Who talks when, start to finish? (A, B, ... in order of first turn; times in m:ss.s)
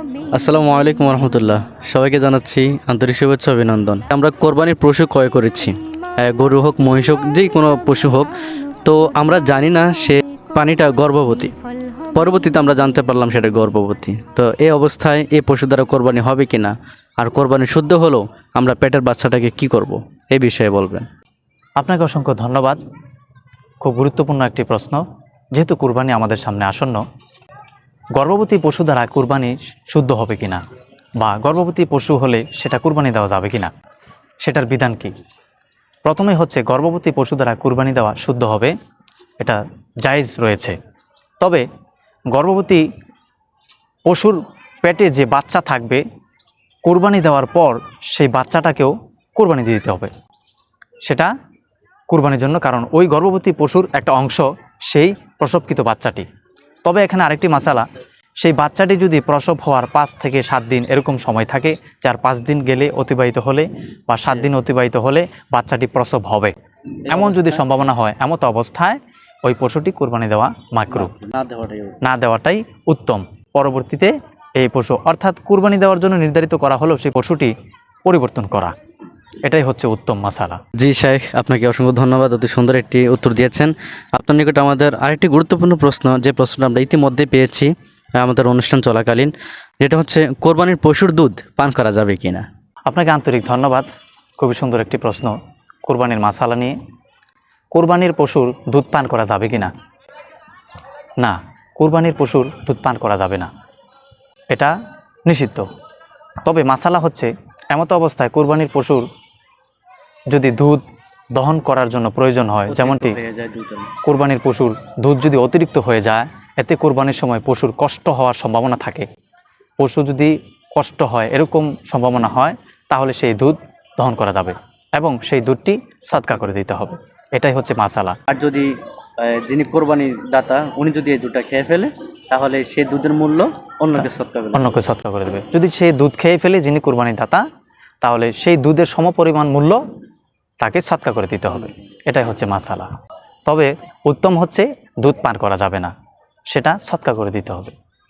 0:00.3-0:11.5 A
0:12.1-0:21.1 A
0:21.8-0:22.8 B
0:23.8-0:27.0 B
0:28.1-0:30.6 B
0:31.2-0:33.7 B
0:34.4-0:35.1 B
0:36.0-0:38.7 B
0:39.4-0:40.8 B
0:42.3-0:42.8 B
0:44.0-0:46.0 B
0:46.8-0:50.1 B
0:51.0-0:51.3 B
0:52.1-0:56.2 B
0:56.8-0:57.9 B
0:58.4-1:06.5 B
1:07.0-1:07.6 A
1:07.0-1:11.1 B
1:10.9-1:12.0 A
1:12.0-1:17.5 B
1:18.0-1:18.7 B
1:19.4-1:20.6 B
1:20.8-1:32.4 A
1:32.9-1:33.9 B
1:34.4-1:35.3 B
1:35.8-1:36.7 B
1:37.7-1:39.7 B
1:41.2-1:43.5 B
1:45.2-1:45.7 B
1:46.4-1:49.0 B
1:50.3-1:50.8 B
1:51.3-1:53.2 B
1:52.7-1:54.0 A
1:54.0-1:59.0 B
1:59.8-2:08.2 B
2:08.3-2:14.8 A
2:13.9-2:17.4 B
2:18.0-2:19.8 B
2:20.6-2:22.9 B
2:23.4-2:25.9 B
2:26.5-2:27.7 B